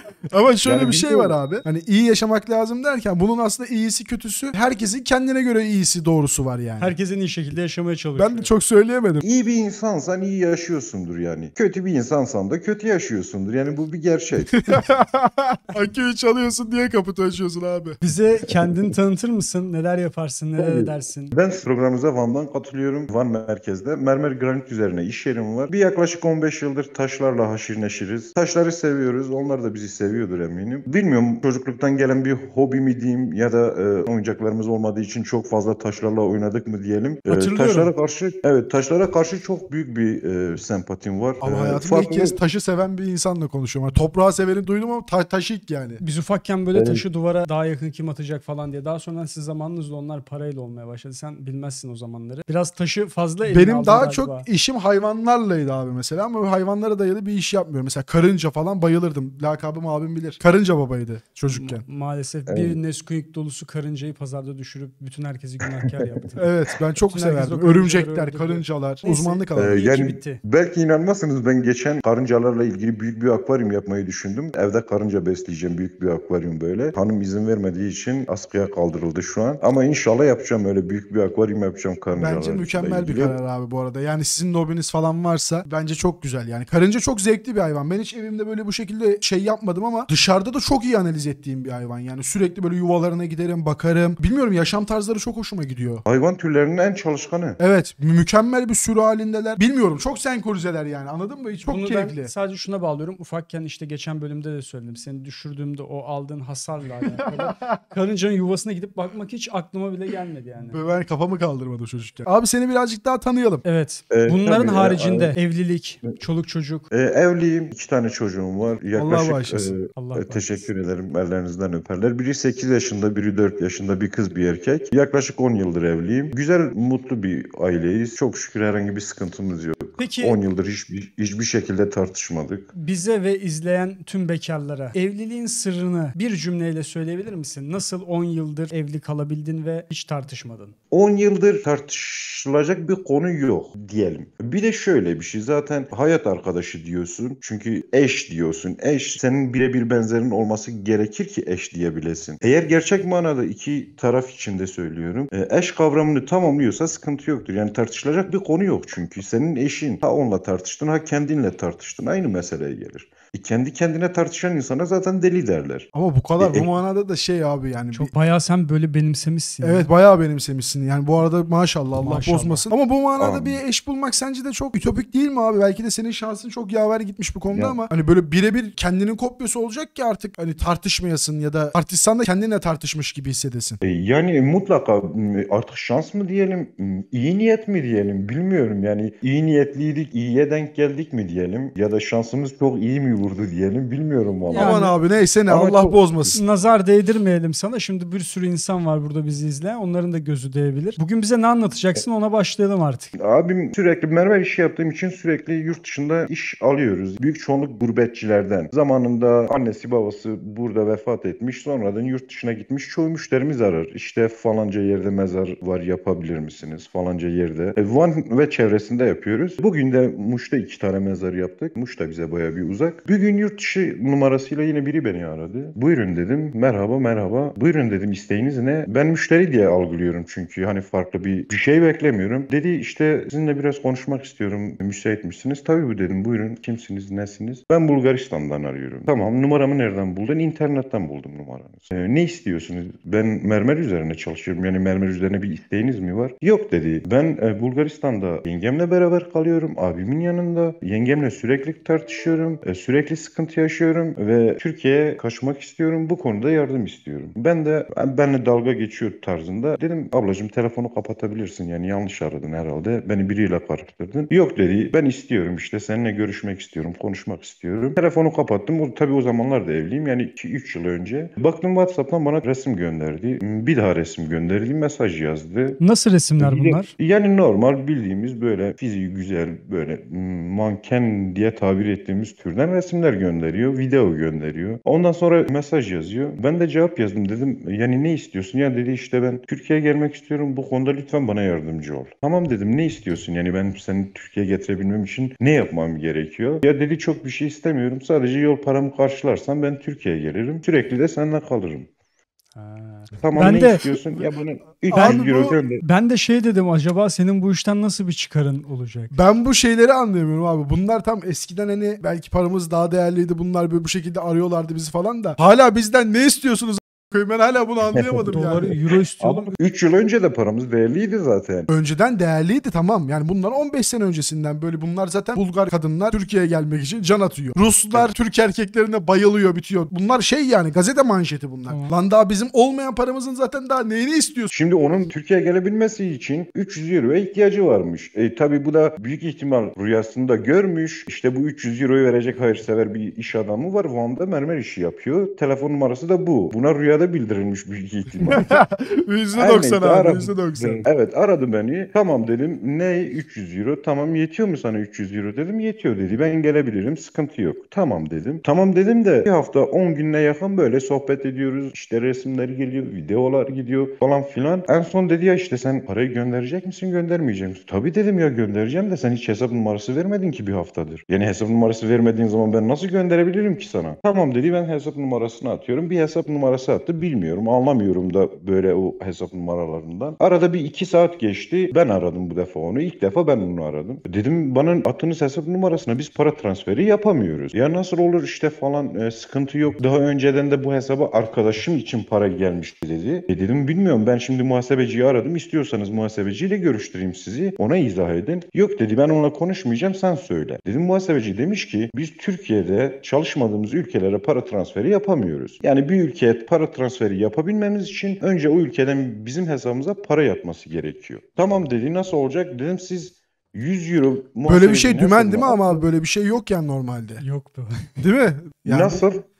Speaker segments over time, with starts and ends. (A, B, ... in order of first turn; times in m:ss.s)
0:00.3-0:06.9 A
0:00.6-0:01.4 B
0:06.8-0:08.5 C
0:08.2-0:09.2 A
0:09.2-0:14.6 B
0:14.5-0:18.0 A
0:18.0-0:21.4 C
0:18.5-0:18.8 B
0:20.6-0:42.4 B
0:37.3-0:37.8 C
0:41.4-0:46.0 A
0:46.0-0:54.5 C
0:46.7-0:47.0 B
0:53.4-1:01.8 A
1:01.5-1:06.5 C
1:02.5-1:02.8 B
1:06.4-1:09.8 A
1:07.1-1:10.4 C
1:09.5-1:23.4 B
1:22.1-1:36.0 A
1:36.0-1:37.6 B
1:37.6-1:42.3 A
1:41.6-1:50.8 C
1:47.2-1:47.8 A
1:50.7-1:53.6 A
1:53.6-1:56.8 C
1:54.1-1:55.4 B
1:56.9-2:12.7 B
1:59.0-1:59.8 A
1:59.9-2:00.7 C
2:10.0-2:10.4 C
2:12.7-2:20.7 C
2:20.9-2:45.9 B
2:45.9-2:48.1 A
2:46.4-2:46.8 B
2:47.9-2:49.9 C
2:49.6-3:03.8 A
2:51.9-2:52.7 C
2:53.2-2:53.6 B
2:57.5-2:57.8 B
3:03.8-3:14.8 B
3:14.5-3:14.9 C
3:14.6-3:16.4 A
3:15.5-3:16.4 B
3:16.3-3:23.1 C
3:23.2-4:35.8 B
4:35.8-4:36.9 C
4:36.4-5:01.9 B
5:02.5-5:03.8 C
5:03.2-5:05.8 B
5:04.9-5:09.1 C
5:04.9-5:05.6 A
5:09.1-5:18.8 A
5:17.9-5:21.7 B
5:18.3-5:19.5 C
5:21.7-5:34.5 A
5:31.7-5:31.9 C
5:34.5-5:48.5 B
5:48.3-5:50.8 A
5:49.3-6:55.8 B
6:54.5-6:57.2 A
6:57.2-6:57.8 C
6:58.0-6:59.0 A
6:58.6-6:59.2 B